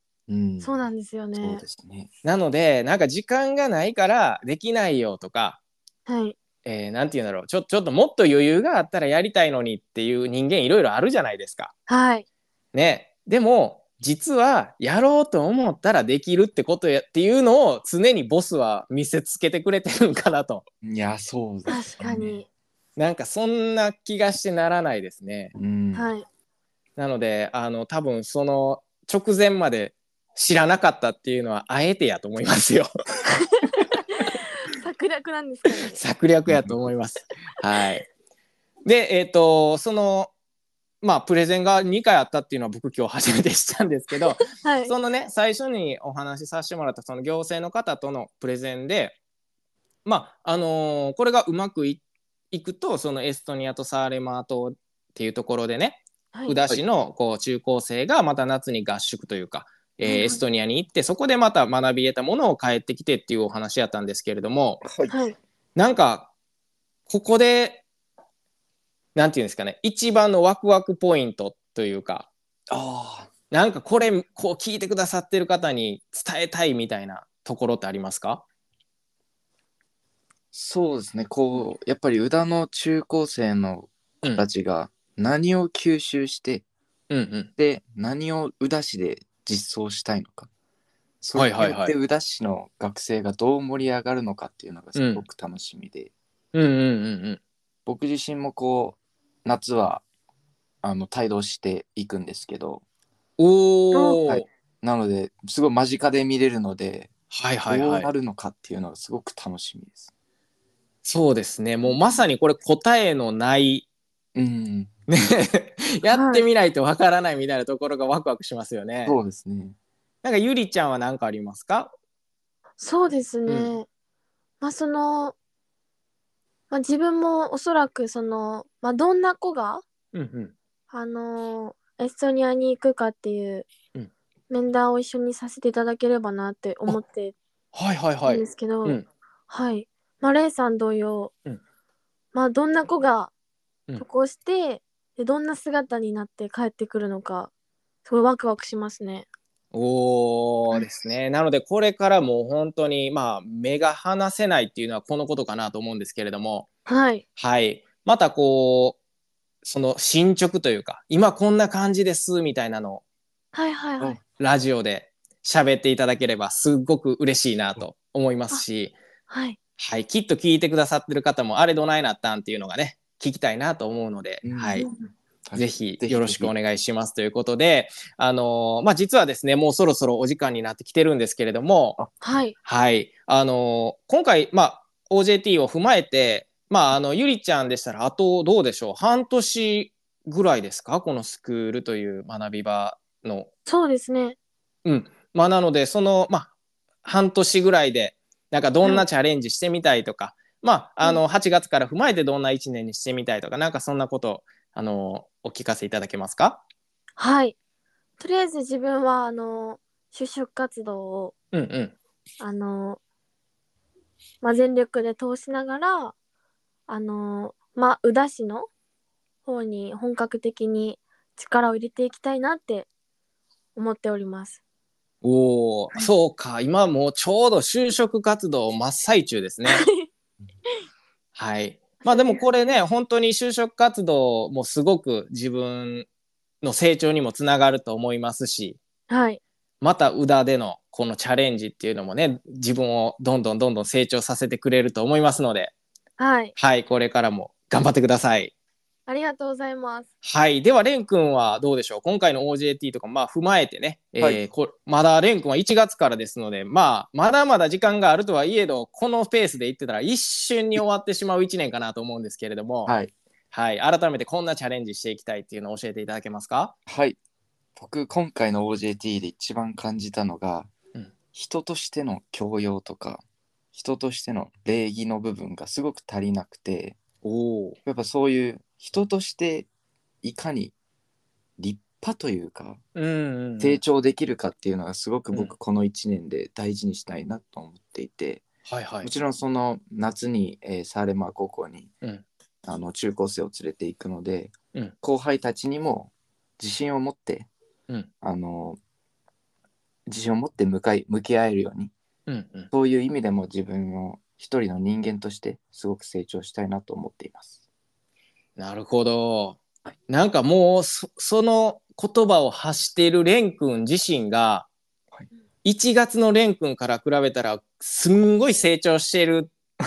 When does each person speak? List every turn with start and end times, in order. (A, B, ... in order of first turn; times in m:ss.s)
0:00.3-0:00.7 A
0:00.6-0:01.6 B
0:01.4-0:02.1 A
0:02.2-0:05.6 C
0:06.0-0:06.4 B
0:06.6-0:11.7 C
0:11.9-0:12.2 B
0:12.7-0:20.6 C
0:20.8-0:22.4 A
0:21.7-0:22.5 B
0:23.0-0:25.5 C
0:25.5-0:26.1 A
0:25.9-0:26.2 B
0:27.0-0:32.9 C
0:33.5-0:36.0 B
0:35.9-0:38.1 C
0:36.5-0:36.9 A
0:38.8-0:40.3 C
0:41.0-0:49.2 C
0:44.5-0:44.9 B
0:50.0-1:04.8 C
1:00.0-1:00.4 B
1:04.8-1:05.2 A
1:05.1-1:05.4 B
1:05.8-1:06.3 C
1:07.1-1:07.8 C
1:09.1-1:12.3 C
1:12.7-1:13.3 A
1:13.5-1:18.4 C
1:20.5-1:26.6 A
1:27.1-1:27.5 C
1:27.6-1:30.5 A
1:31.2-1:36.1 A
1:31.3-1:31.9 C
1:34.9-1:35.2 C
1:36.5-1:37.4 C
1:37.8-1:40.0 A
1:40.8-1:42.8 A
1:43.4-1:44.4 C
1:43.9-1:44.2 B
1:44.2-1:47.1 A
1:47.3-1:48.1 C
1:47.7-1:50.1 A
1:51.0-1:53.8 C
1:54.3-1:54.9 A
1:55.1-1:59.2 C
1:56.1-1:56.4 B
1:59.0-1:59.8 A
2:00.2-2:01.9 C
2:02.8-2:03.9 B
2:03.5-2:03.7 C
2:04.6-2:05.3 B
2:06.7-2:09.8 B
2:10.1-2:10.5 C
2:10.9-2:13.7 B
2:14.5-2:17.3 B
2:17.7-2:19.0 C
2:18.2-2:21.3 B
2:22.3-2:23.3 B
2:24.0-2:27.5 B
2:28.0-2:29.3 B
2:29.7-2:36.7 C
2:36.9-2:37.2 B
2:37.4-2:39.0 C
2:39.6-2:43.0 C
2:43.5-2:44.2 B
2:44.4-2:49.0 C
2:49.3-2:49.6 B
2:49.8-2:54.9 C
2:54.4-2:54.9 A
2:54.8-2:55.1 B
2:55.4-2:56.5 A
2:55.5-3:02.0 C
3:02.2-3:02.6 B
3:02.6-3:13.5 C
3:13.7-3:14.4 B
3:14.8-3:16.5 C
3:17.0-3:26.6 C
3:27.2-3:27.5 B
3:28.2-3:31.3 B
3:31.5-3:32.0 C
3:32.4-3:33.0 B
3:34.4-3:36.1 B
3:36.9-3:38.7 B
3:39.4-3:42.9 B
3:43.7-3:44.6 B
3:45.2-3:49.9 C
3:49.6-3:50.1 B
3:51.3-3:56.1 C
3:52.0-3:52.5 B
3:56.6-3:58.8 C
3:59.1-3:59.4 B
3:59.8-4:05.7 C
4:06.2-4:06.5 B
4:06.6-4:08.5 C
4:09.1-4:10.1 B
4:10.2-4:22.9 C
4:22.8-4:23.1 A
4:23.5-4:26.7 C
4:26.9-4:27.2 A
4:27.8-4:30.7 A
4:31.3-4:37.0 A
4:37.2-4:37.8 C
4:37.8-4:39.7 A
4:40.2-4:40.7 A
4:41.6-4:42.8 A
4:43.0-4:43.8 C
4:43.6-4:48.5 A
4:48.6-4:49.1 C
4:49.0-4:51.9 A
4:52.6-4:57.5 A
4:58.2-4:58.8 A
5:00.1-5:01.9 A
5:02.3-5:02.7 C
5:02.7-5:07.5 A
5:08.6-5:14.7 C
5:15.6-5:19.5 C